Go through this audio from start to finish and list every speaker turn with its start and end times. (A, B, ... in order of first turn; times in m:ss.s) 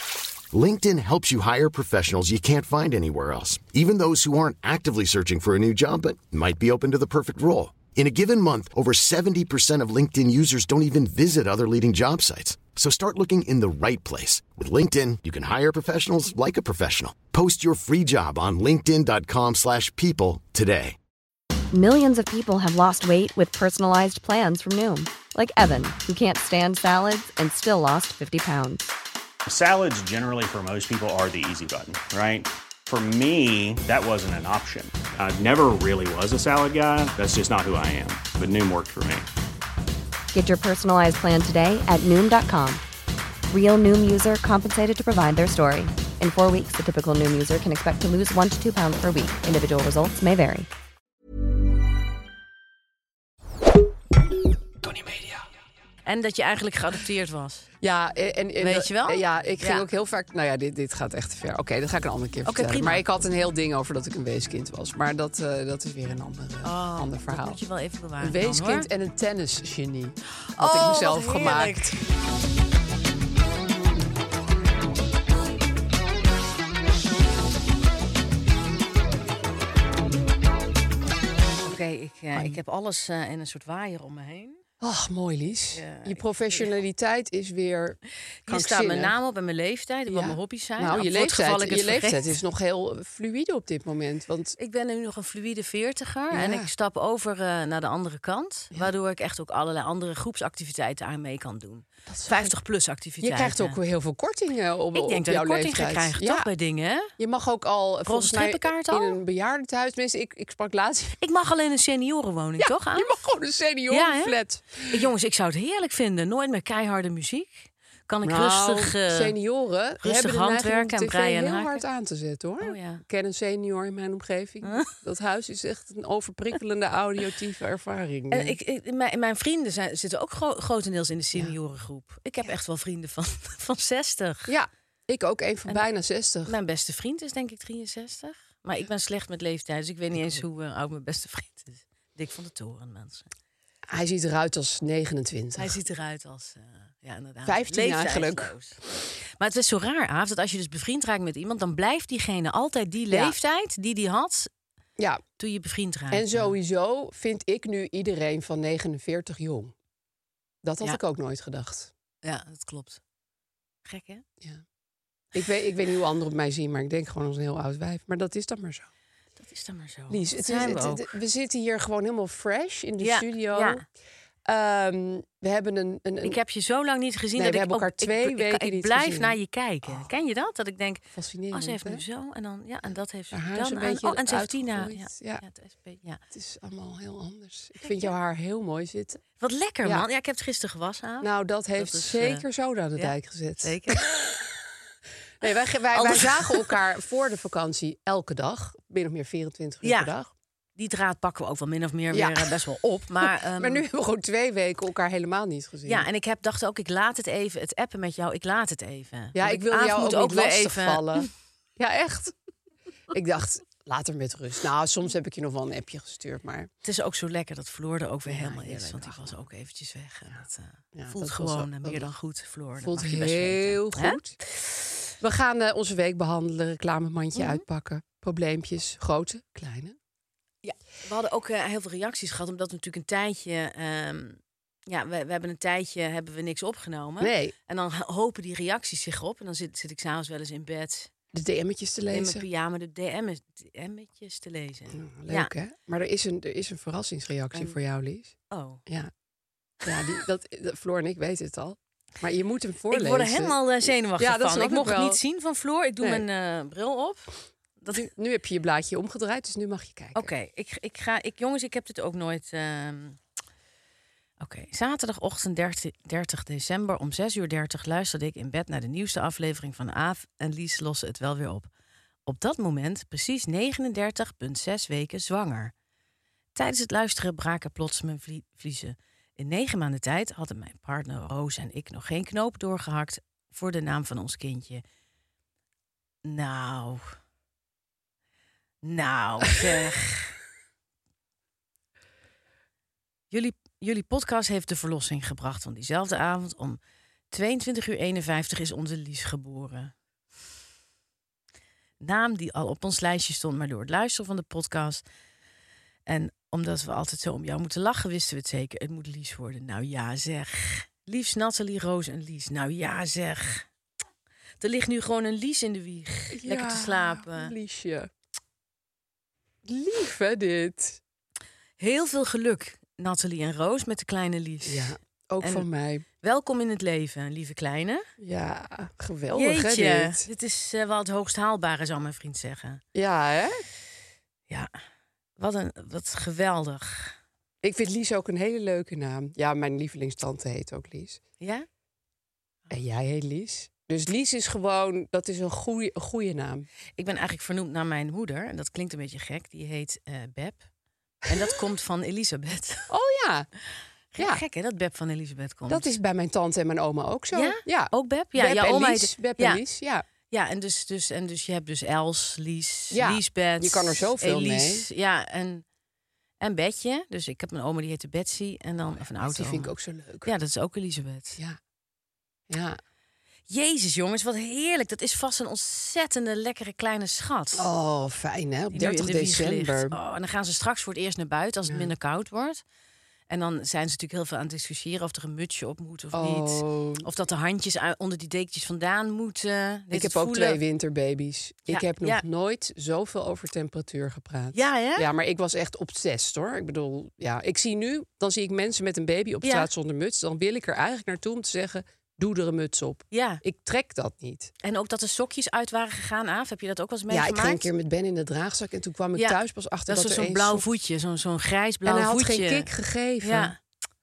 0:00.5-0:21.0 A
0:21.7-0:28.9 B
0:29.5-0:39.3 C
0:40.3-0:42.8 B
0:43.5-0:50.7 B
0:56.0-0:57.6 D
0:57.8-1:07.6 E
0:58.6-0:59.9 D
1:02.4-1:03.1 D
1:06.6-1:08.9 D
1:08.2-1:12.0 E
1:10.5-1:12.0 D
1:21.6-1:24.6 D
1:22.3-1:22.6 E
1:24.8-1:29.1 E
1:25.7-1:26.7 D
1:28.4-1:32.3 D
1:30.1-1:34.6 E
1:34.6-1:43.8 D
1:36.3-1:36.7 E
1:42.1-1:42.5 E
1:43.2-1:46.5 E
1:44.9-1:47.1 D
1:47.2-1:51.2 E
1:48.0-1:49.2 D
1:51.2-1:53.1 D
1:52.6-1:55.1 E
1:53.9-1:59.3 D
1:58.2-2:08.6 E
2:00.0-2:01.8 D
2:02.6-2:03.0 D
2:04.6-2:04.9 D
2:08.3-2:14.5 D
2:14.5-2:16.5 E
2:16.5-2:23.3 D
2:20.1-2:20.4 E
2:23.9-2:25.8 E
2:25.6-2:28.8 D
2:27.4-2:28.5 E
2:29.4-2:34.5 D
2:33.1-2:33.4 E
2:35.0-2:35.2 E
2:35.4-2:36.5 D
2:36.1-2:39.7 E
2:40.6-2:41.9 E
2:42.2-2:43.0 D
2:43.8-2:44.2 D
2:45.3-2:48.9 E
2:49.4-2:51.1 D
2:50.1-2:53.8 E
2:53.0-2:53.8 D
2:54.4-2:56.4 E
2:56.2-3:06.2 D
2:57.4-3:00.0 E
3:01.1-3:02.0 E
3:03.3-3:05.4 E
3:06.3-3:09.2 E
3:07.8-3:08.1 D
3:09.4-3:12.4 D
3:11.2-3:14.5 E
3:13.0-3:14.2 D
3:15.4-3:20.3 E
3:15.9-3:16.8 D
3:19.8-3:20.1 D
3:20.8-3:23.8 D
3:22.1-3:26.1 E
3:25.8-3:31.3 D
3:29.3-3:32.3 E
3:33.1-3:36.7 E
3:36.8-3:44.7 D
3:38.2-3:39.4 E
3:40.9-3:42.1 E
3:42.8-3:44.4 E
3:45.2-3:50.0 E
3:47.3-3:47.6 D
3:50.6-4:01.1 D
3:57.2-3:57.5 E
4:01.3-4:02.4 E
4:02.1-4:05.5 D
4:04.9-4:08.3 E
4:08.5-4:08.8 D
4:09.8-4:13.6 E
4:12.9-4:18.1 D
4:14.2-4:15.2 E
4:17.9-4:20.3 E
4:20.1-4:23.2 D
4:24.4-4:31.7 D
4:32.2-4:35.7 D
4:36.5-4:44.8 D
4:46.2-4:47.0 D
4:48.8-4:50.3 D
4:53.3-4:56.8 D
4:57.3-4:59.9 D
5:02.0-5:05.0 D
5:06.1-5:13.6 D
5:14.6-5:17.5 D
5:16.3-5:18.1 E
5:19.6-5:21.0 E
5:21.8-5:25.6 D
5:24.6-5:26.0 E
5:26.2-5:28.0 D
5:28.2-5:30.2 E
5:29.3-5:32.8 D
5:32.9-5:33.6 E
5:35.4-5:37.1 D
5:37.6-5:41.2 E
5:41.4-5:41.7 D
5:42.7-5:46.7 E
5:47.0-5:50.6 D
5:51.2-5:52.9 D
5:52.9-5:53.5 E
5:54.1-5:55.9 D
5:54.2-5:54.4 E
5:55.7-6:00.0 E
5:57.3-5:59.6 D
6:00.3-6:05.6 D
6:02.9-6:04.9 E
6:06.4-6:09.7 D
6:09.2-6:10.3 E
6:10.2-6:11.4 D
6:12.5-6:12.8 E
6:13.5-6:17.7 D
6:17.5-6:20.0 E
6:18.7-6:22.6 D
6:23.3-6:30.6 D
6:26.1-6:27.0 E
6:29.9-6:44.5 E
6:31.7-6:32.2 D
6:34.5-6:35.1 D
6:39.4-6:39.7 D
6:43.1-6:43.4 D
6:44.6-6:47.7 D
6:47.1-6:50.6 E
6:49.2-6:52.7 D
6:51.8-6:53.5 E
6:53.2-6:53.6 D